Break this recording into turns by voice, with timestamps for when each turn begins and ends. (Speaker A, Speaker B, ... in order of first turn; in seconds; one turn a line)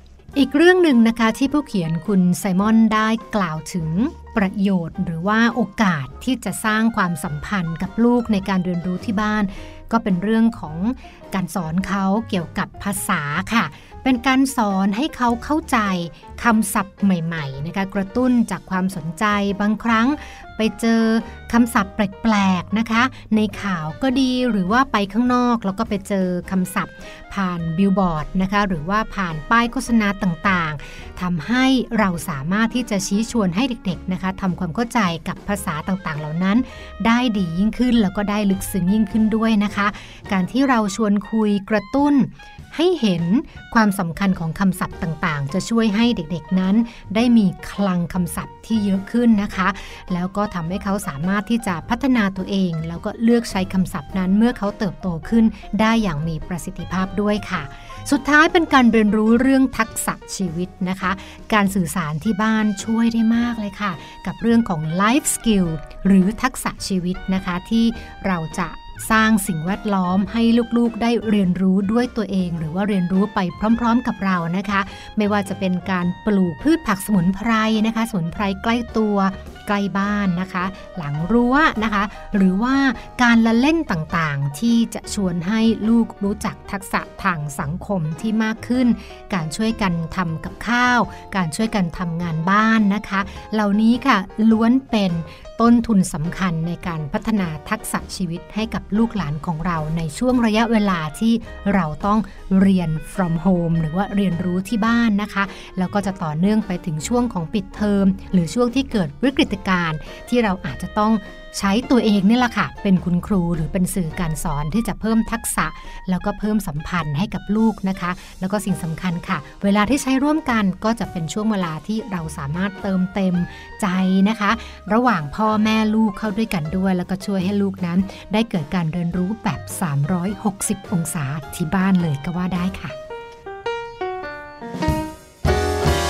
Speaker A: 0.3-132.9